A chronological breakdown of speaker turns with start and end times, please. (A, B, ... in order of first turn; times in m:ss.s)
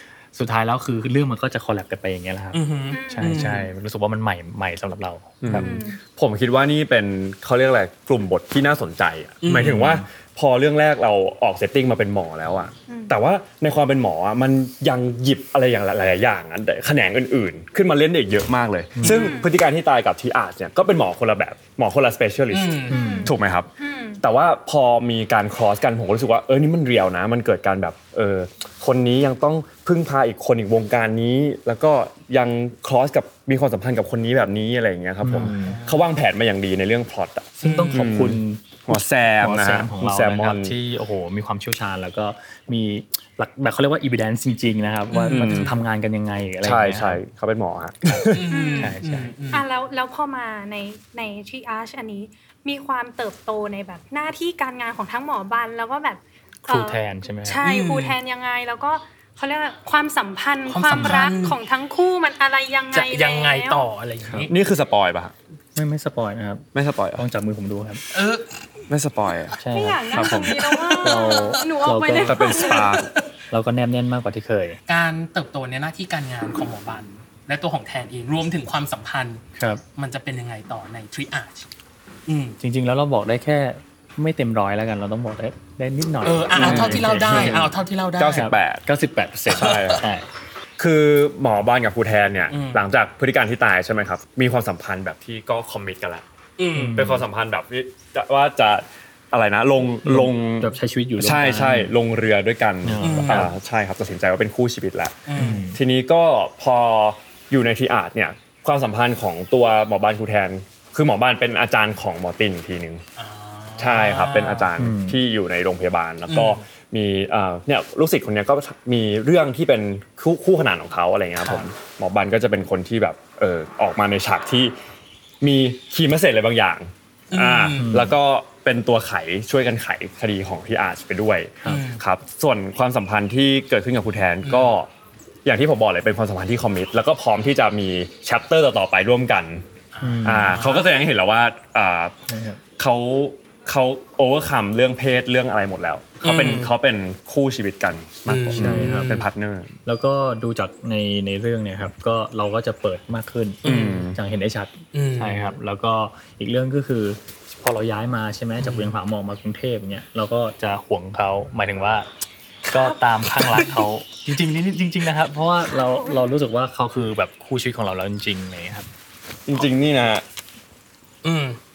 0:00.3-0:05.7 A
0:02.5-0:03.7 B
0:02.9-0:03.4 C
0:05.4-0:40.8 D
0:05.7-0:06.0 C
0:09.4-0:09.9 B
0:09.6-0:10.0 A
0:19.0-0:19.2 A
0:22.5-0:23.0 B
0:22.9-0:23.3 A
0:22.9-0:23.3 C
0:23.8-0:24.2 C
0:35.2-0:35.8 A
0:35.6-0:36.0 B
0:37.6-0:38.1 B
0:37.6-0:47.2 A
0:45.1-0:45.8 B
0:45.3-0:45.7 D
0:46.6-0:48.4 D
0:48.3-0:49.6 B
0:48.5-0:48.9 C
0:48.8-0:49.3 A
0:49.5-1:03.8 C
0:56.7-0:57.6 A
0:57.6-0:58.2 B
1:00.7-1:01.6 B
1:00.9-1:01.2 A
1:02.9-1:04.5 B
1:04.5-1:05.3 D
1:05.7-1:08.0 A
1:06.7-1:07.2 D
1:08.1-1:08.5 B
1:08.9-1:09.6 D
1:09.6-1:12.6 A
1:09.7-1:12.8 C
1:10.1-1:10.7 D
1:10.6-1:11.3 B
1:12.1-1:13.1 D
1:12.7-1:13.1 B
1:13.5-1:14.8 A
1:14.9-1:19.4 B
1:19.6-1:19.8 A
1:19.9-1:21.7 B
1:22.3-1:22.5 B
1:22.6-1:30.3 A
1:26.2-1:28.5 B
1:26.5-1:28.9 D
1:29.4-1:30.0 D
1:30.8-1:36.2 D
1:32.5-1:32.8 B
1:36.6-1:37.0 B
1:36.7-1:37.3 A
1:36.9-1:53.0 D
1:40.0-1:41.9 A
1:42.8-1:43.5 A
1:43.0-1:43.5 B
1:45.3-1:45.6 B
1:45.3-1:45.8 A
1:53.2-1:54.7 B
1:53.8-2:04.8 D
1:54.8-1:55.2 A
1:56.3-1:56.6 B
2:01.4-2:01.6 B
2:05.4-2:14.9 D
2:07.3-2:07.9 B
2:07.8-2:08.1 A
2:11.6-2:12.0 B
2:14.4-2:14.8 B
2:15.4-2:19.6 D
2:19.9-2:20.9 B
2:20.0-2:20.6 A
2:20.2-2:22.1 D
2:22.3-2:22.6 A
2:22.8-2:29.7 D
2:26.2-2:26.7 B
2:28.3-2:29.2 B
2:28.5-2:29.2 A
2:29.8-2:42.1 A
2:33.6-2:34.1 B
2:33.6-2:34.2 D
2:34.9-2:35.6 B
2:38.6-2:39.0 B
2:42.7-2:43.8 B
2:42.7-2:48.9 A
2:49.5-2:50.2 D
2:51.2-2:51.6 B